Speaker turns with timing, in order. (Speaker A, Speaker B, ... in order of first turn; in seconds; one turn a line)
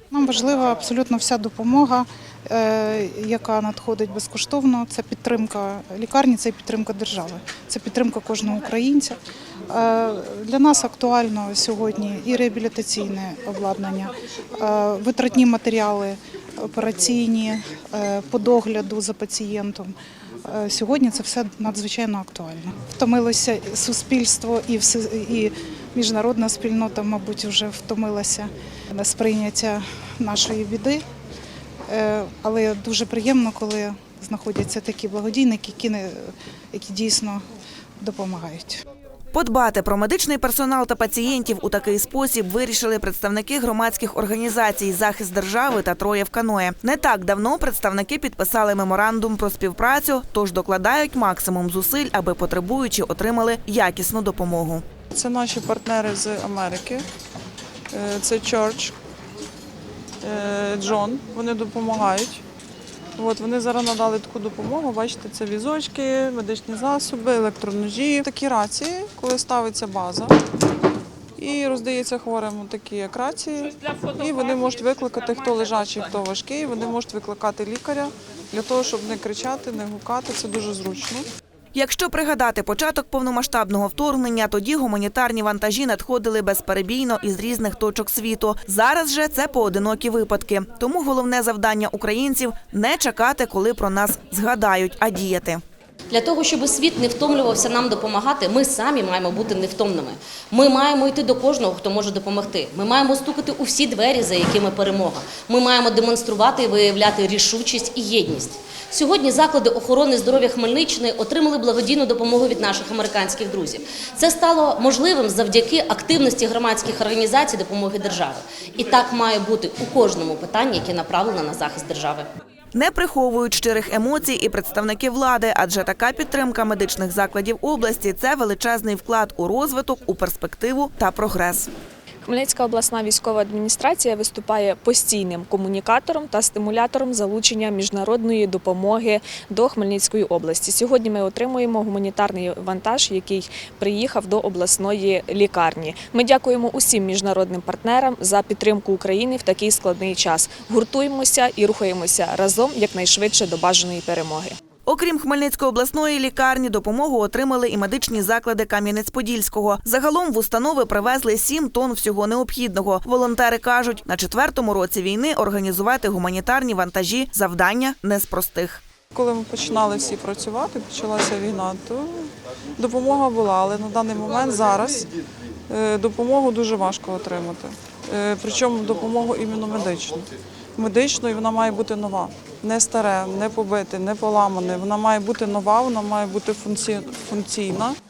Speaker A: 0.1-9.2
Speaker A: 9.7-19.9
Speaker A: 20.4-31.0
Speaker A: 31.9-37.4
Speaker A: 38.0-38.8
Speaker B: 39.3-54.9
Speaker C: 55.1-57.1
Speaker C: 57.9-59.0
Speaker C: 60.2-62.4
Speaker C: 63.2-70.4
Speaker C: 71.4-81.3
Speaker B: 81.8-95.6
Speaker D: 96.1-122.3
Speaker B: 122.7-131.7
Speaker E: 132.2-154.6
Speaker B: 154.9-168.8
Speaker C: 169.1-175.1
Speaker C: 175.7-188.0